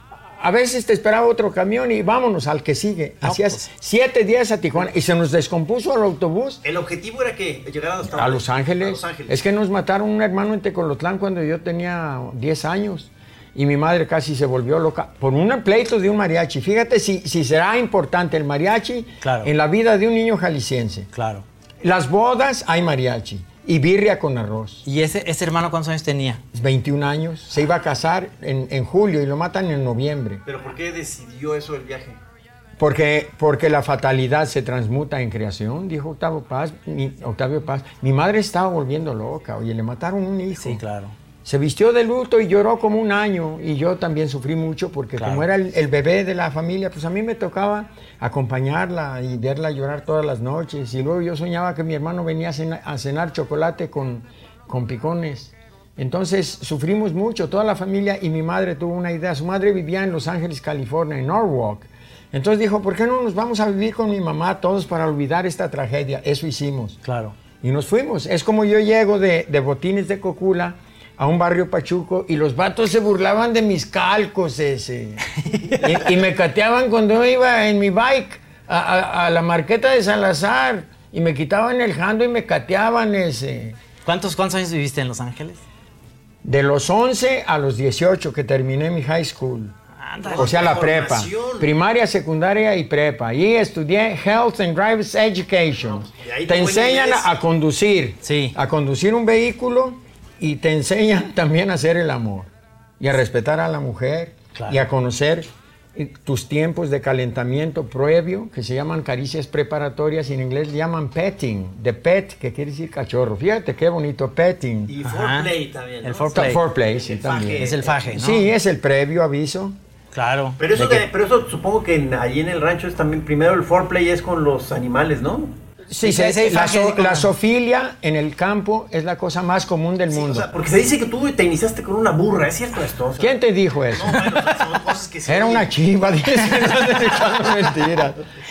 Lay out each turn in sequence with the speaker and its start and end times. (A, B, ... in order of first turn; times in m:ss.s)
0:00.4-0:06.6 A
0:03.2-0:03.7 B
0:06.6-0:09.4 C
0:08.0-0:21.1 A
0:19.2-0:19.5 B
0:21.1-0:21.4 B
0:21.8-0:24.8 A
0:24.8-0:26.4 B
0:26.5-0:30.4 A
0:30.4-0:32.2 C
0:32.8-0:40.8 A
0:40.6-0:41.1 B
0:41.4-1:07.0 A
0:45.2-0:45.4 B
1:07.0-1:07.3 B
1:07.6-1:15.3 A
1:15.5-1:15.9 B
1:15.8-1:23.8 A
1:24.0-1:25.6 B
1:26.4-1:29.7 A
1:30.0-1:30.6 B
1:30.2-1:31.7 C
1:30.4-1:54.9 A
1:35.9-1:37.3 C
1:38.2-1:38.5 B
1:44.5-1:44.8 B
1:54.9-1:58.0 C
1:55.0-1:56.6 B
1:56.3-1:59.8 A
1:57.6-1:58.5 B
2:00.1-2:01.0 B
2:00.6-2:05.5 C
2:05.9-2:10.5 A
2:06.0-2:07.3 B
2:10.1-2:13.4 C
2:13.2-2:14.5 A
2:13.9-2:15.7 C
2:15.2-2:18.2 A